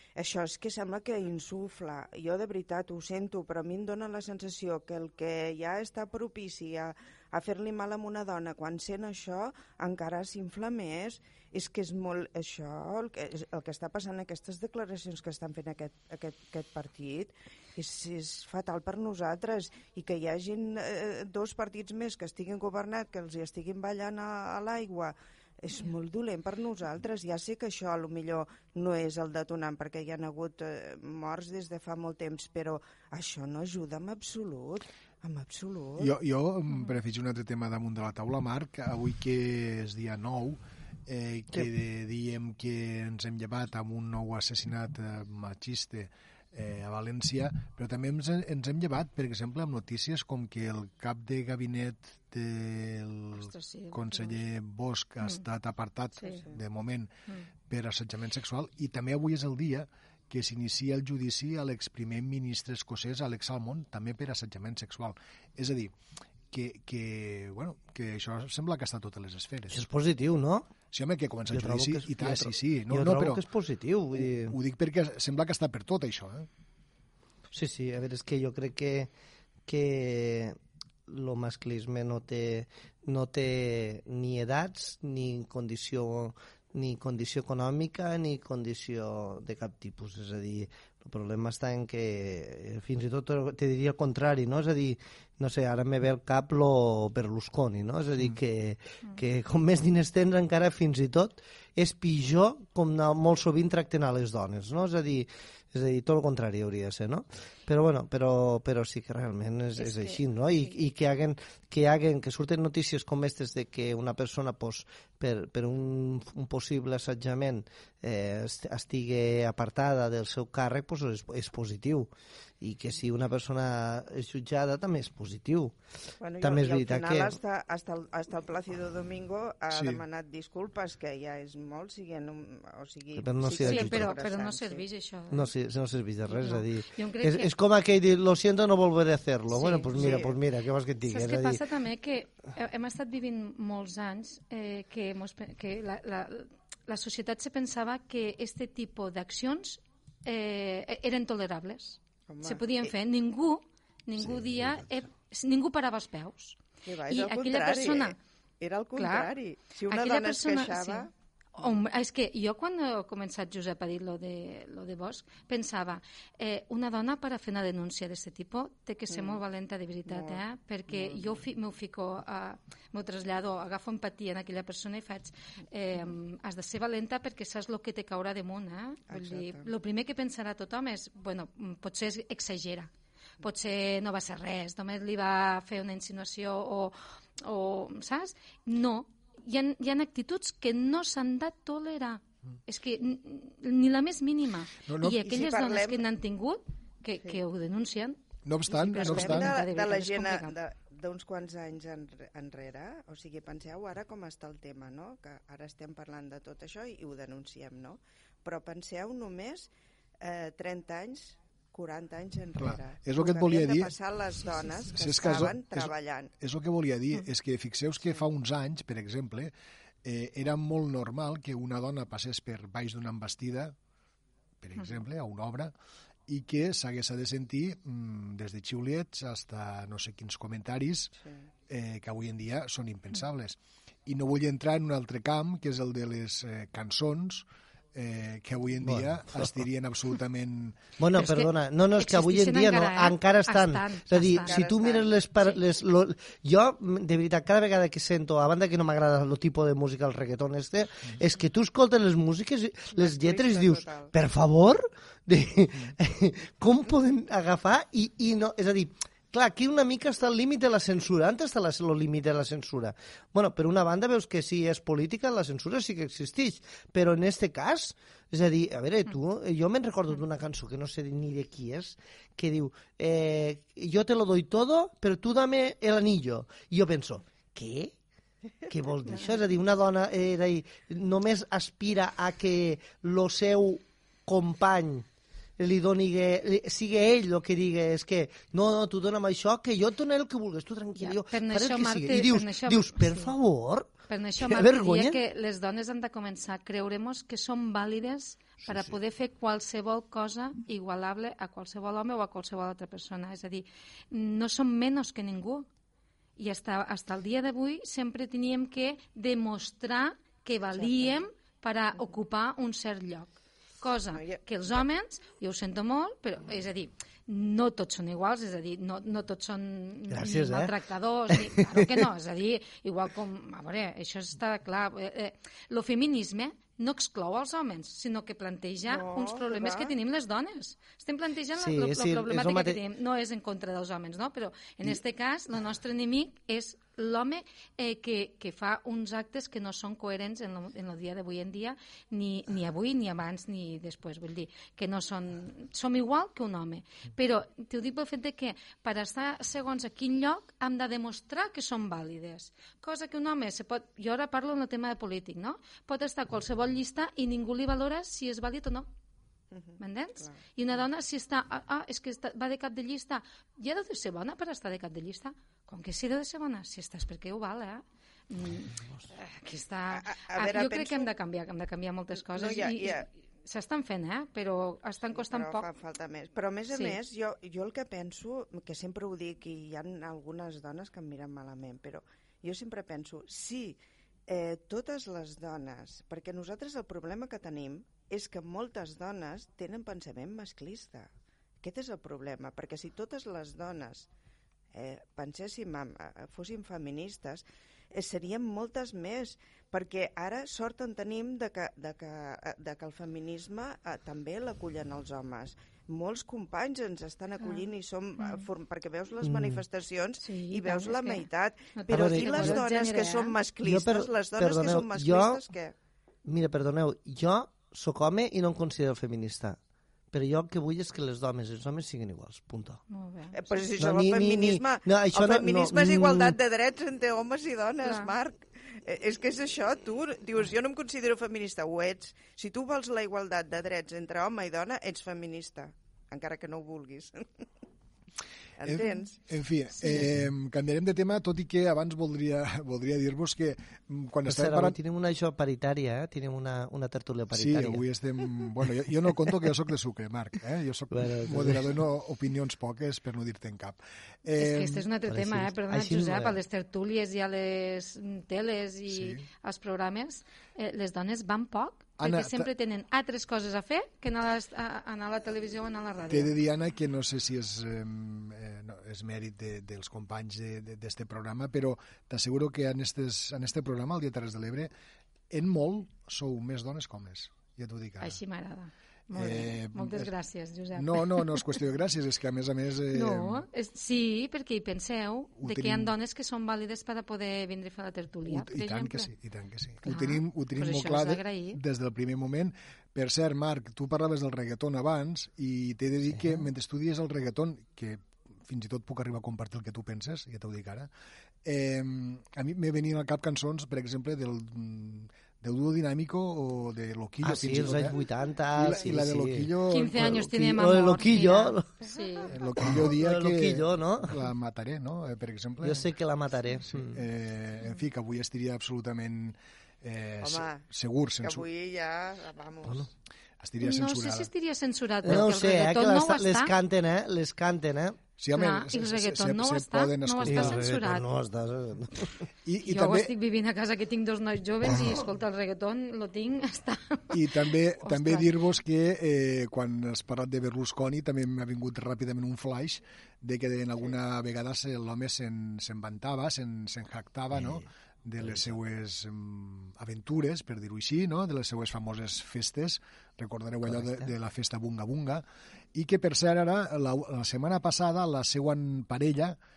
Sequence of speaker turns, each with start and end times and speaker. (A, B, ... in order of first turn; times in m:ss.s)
0:00.2-0:36.1 A
0:36.0-0:57.1 B
0:53.4-0:54.4 C
0:57.7-1:05.9 B
1:06.5-1:09.8 B
1:09.7-1:10.7 D
1:10.9-1:13.4 B
1:11.5-1:14.6 D
1:14.4-1:16.5 B
1:17.5-1:19.1 D
1:19.7-1:20.6 D
1:21.1-2:05.7 D
1:49.8-1:50.8 C
2:06.2-2:14.8 A
2:06.4-2:07.4 D
2:09.7-2:10.0 B
2:13.2-2:14.1 D
2:13.6-2:15.5 C
2:15.3-2:21.6 D
2:16.3-2:17.5 C
2:19.5-2:19.9 C
2:19.9-2:20.4 A
2:21.0-2:38.2 C
2:32.3-2:32.9 A
2:36.8-2:41.1 A
2:39.0-2:39.3 C
2:39.9-3:02.9 C
2:49.1-2:49.4 A
2:50.1-2:51.4 A
2:59.1-2:59.7 A
3:03.4-3:18.2 C
3:14.8-3:15.2 B
3:15.2-3:16.0 A
3:18.4-3:19.5 B
3:18.7-3:29.7 A
3:18.7-3:20.5 C
3:30.2-3:36.3 A
3:32.6-3:33.9 B
3:35.0-3:39.5 B
3:40.0-3:43.7 B
3:44.6-3:45.7 B
3:46.3-3:51.1 B
3:51.7-4:00.8 B
3:58.8-3:59.6 D
4:01.0-4:38.0 D
4:01.1-4:04.7 C
4:04.3-4:05.2 A
4:12.9-4:14.1 A
4:38.7-4:45.1 D
4:45.6-4:55.2 D
4:51.0-4:53.3 C
4:54.1-5:05.7 C
5:06.4-5:58.9 C
5:10.8-5:11.2 A
5:20.1-5:20.8 D
5:21.3-5:21.9 D
5:28.9-5:29.9 A
5:31.6-5:32.8 D
5:59.5-6:00.4 A
5:59.8-6:15.7 C
6:09.9-6:11.1 A
6:12.2-6:13.1 A
6:15.1-6:31.1 A
6:31.6-6:34.1 A
6:34.7-6:55.7 A
6:48.2-6:48.4 C
6:49.2-6:49.6 D
6:50.2-6:53.3 C
6:51.9-6:52.6 D
6:53.6-6:55.4 D
6:56.2-6:59.6 D
7:00.1-7:02.8 D
7:02.9-7:03.6 C
7:03.3-7:17.4 A
7:03.8-7:06.4 D
7:07.8-7:08.1 C
7:18.6-7:19.1 A
7:18.7-7:24.8 B
7:24.3-7:27.8 D
7:27.3-7:34.8 B
7:30.9-7:31.7 D
7:34.4-7:46.4 C
7:35.1-7:36.4 D
7:38.9-7:39.2 B
7:42.0-7:42.5 B
7:46.1-7:54.7 B
7:55.3-7:58.2 B
7:58.0-8:01.4 C
7:59.1-8:00.1 B
8:00.7-8:03.4 B
8:02.9-8:09.1 C
8:05.4-8:05.9 B
8:08.3-8:20.9 B
8:09.8-8:11.6 C
8:16.1-8:16.4 D
8:21.4-8:28.0 B
8:27.2-8:31.7 D
8:28.5-8:30.2 B
8:29.7-8:32.3 C
8:32.3-8:35.9 B
8:32.6-8:34.2 D
8:35.6-8:37.0 D
8:36.7-8:41.4 B
8:40.2-8:40.6 A
8:41.2-8:42.9 A
8:43.4-8:44.3 B
8:43.6-8:46.5 C
8:45.0-8:48.0 D
8:48.2-8:50.7 B
8:48.3-8:51.0 C
8:50.2-8:52.2 D
8:52.4-8:53.1 B
8:52.6-8:57.3 C
8:57.1-9:15.2 B
8:57.8-8:58.3 C
9:08.2-9:08.6 D
9:13.6-9:14.1 D
9:15.7-9:19.4 B